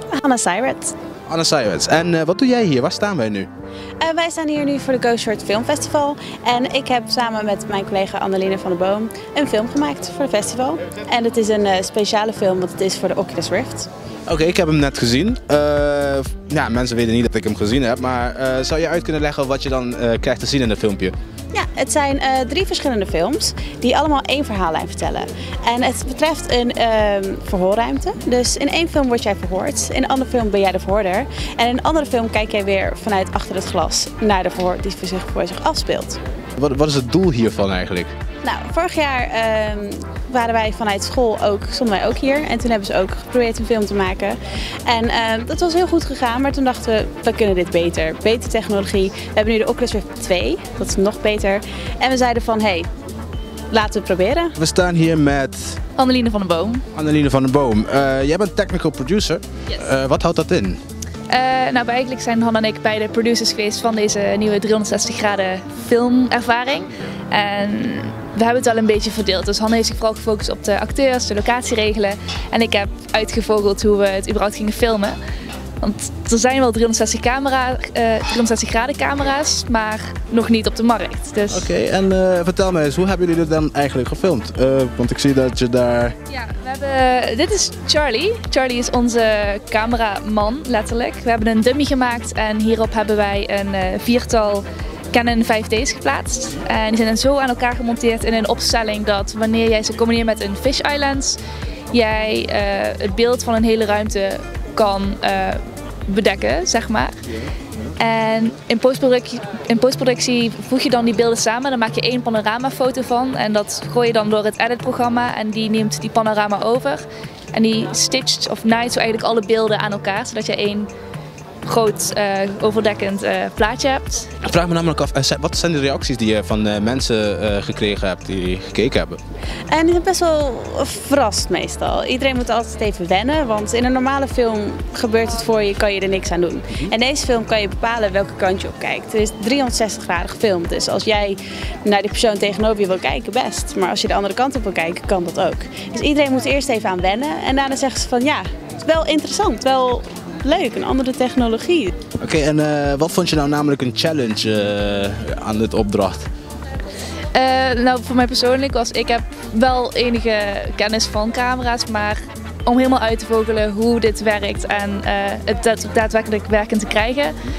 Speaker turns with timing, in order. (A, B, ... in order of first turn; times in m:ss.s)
0:00.1-0:00.9 A
0:01.3-0:03.5 B
0:04.0-0:13.9 A
0:14.3-0:21.1 B
0:21.5-0:36.2 A
0:36.6-0:38.1 B
0:38.4-0:52.9 A
0:53.7-0:54.5 A
0:54.6-0:55.8 B
0:56.0-0:56.9 C
0:56.9-1:00.8 B
1:01.3-1:15.2 C
1:15.8-1:21.7 C
1:21.5-1:26.1 B
1:26.3-1:41.4 C
1:41.9-1:47.2 C
1:48.0-2:00.9 C
2:01.6-2:04.4 C
2:04.4-2:09.2 B
2:09.7-2:31.9 A
2:32.2-2:36.3 B
2:37.3-2:47.4 C